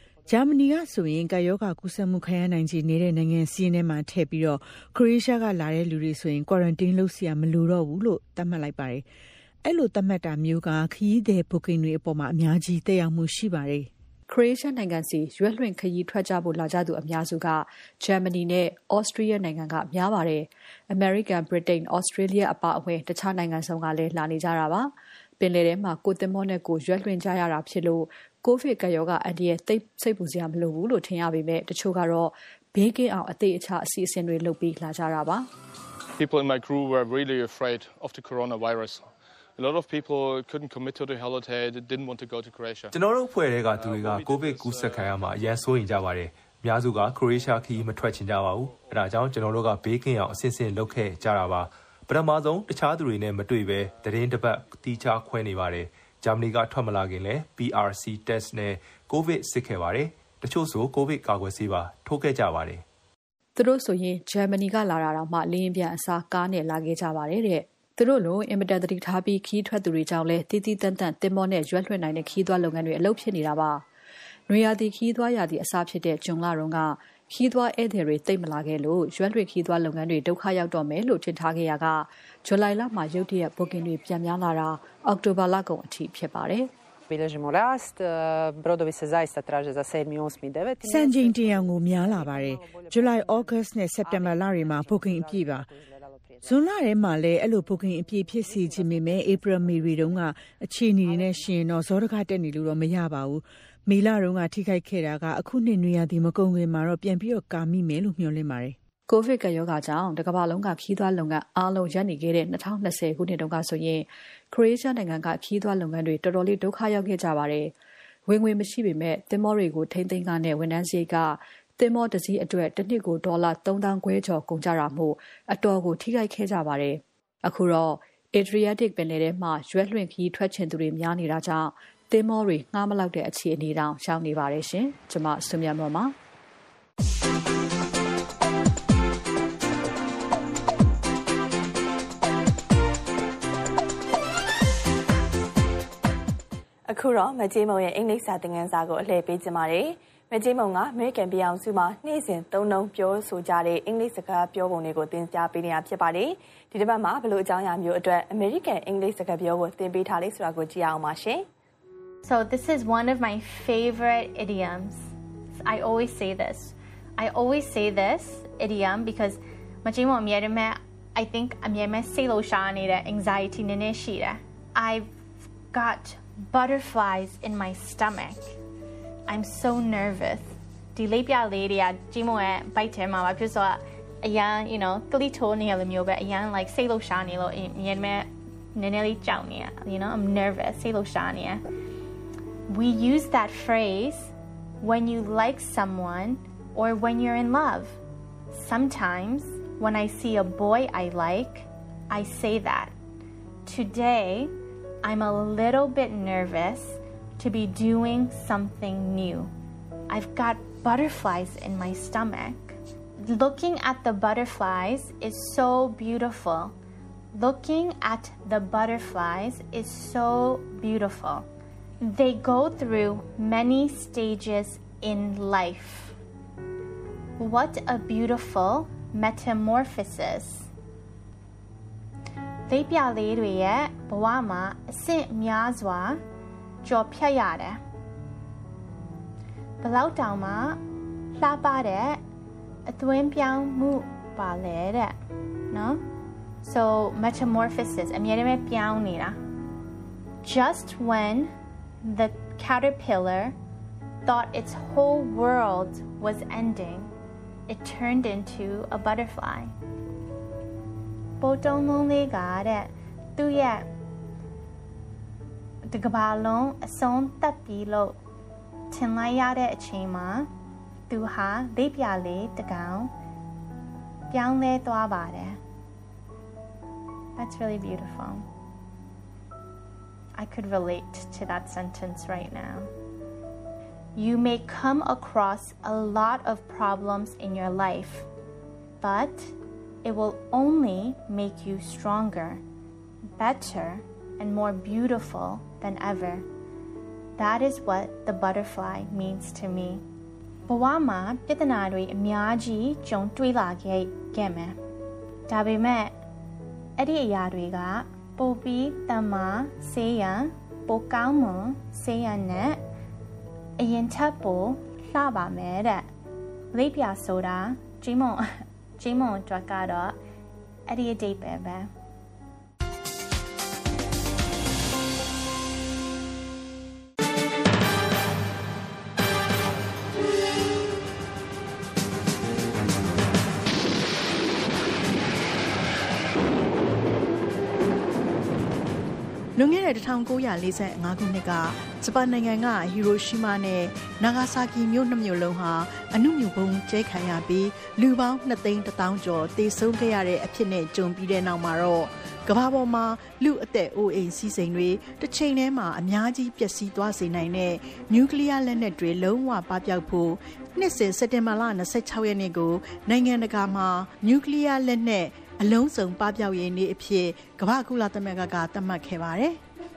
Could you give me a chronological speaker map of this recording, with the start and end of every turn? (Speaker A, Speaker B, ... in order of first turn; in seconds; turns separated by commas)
Speaker A: 0.3-9.0, Speaker A: 9.6-13.9, Speaker B: 14.3-35.5, Speaker C: 36.2-42.9, Speaker D: 42.9-62.8, Speaker C: 43.8-45.2, Speaker B: 63.5-73.8, Speaker B: 74.5-86.7, Speaker E: 87.1-91.6, Speaker A: 90.8-95.7, Speaker E: 92.6-93.2, Speaker E: 94.0-95.7, Speaker A: 96.4-108.8, Speaker B: 109.1-117.7, Speaker B: 118.3-136.1, Speaker F: 146.9-161.4, Speaker G: 162.2-165.1, Speaker G: 165.6-175.1, Speaker G: 175.7-178.5, Speaker G: 179.3-191.6, Speaker G: 192.7-198.0, Speaker G: 198.5-202.9, Speaker G: 203.7-209.5, Speaker G: 210.1-216.7, Speaker G: 217.3-221.4, Speaker G: 222.0-226.2, Speaker G: 227.4-230.7, Speaker G: 232.7-236.2, Speaker G: 236.8-237.8, Speaker G: 239.8-240.8, Speaker G: 241.3-242.2, Speaker G: 242.9-245.2, Speaker G: 245.7-246.0, Speaker G: 246.6-249.4, Speaker G: 250.4-251.5, Speaker G: 252.0-253.5, Speaker G: 254.2-257.1, Speaker G: 257.7-259.7, Speaker G: 261.4-263.9, Speaker G: 265.9-268.2, Speaker G: 268.9-270.5, Speaker G: 271.1-273.1, Speaker G: 274.3-275.6, Speaker G: 277.4-278.4, Speaker G: 280.4-282.9, Speaker G: 284.1-288.3, Speaker G: 289.0-292.6, Speaker G: 293.4-296.4, Speaker G: 297.4-300.0, Speaker G: 300.7-304.8, Speaker G: 305.5-306.2, Speaker G: 307.0-312.8, Speaker G: 313.8-316.1, Speaker G: 316.7-320.2, Speaker G: 320.9-321.9, Speaker H: 339.6-369.6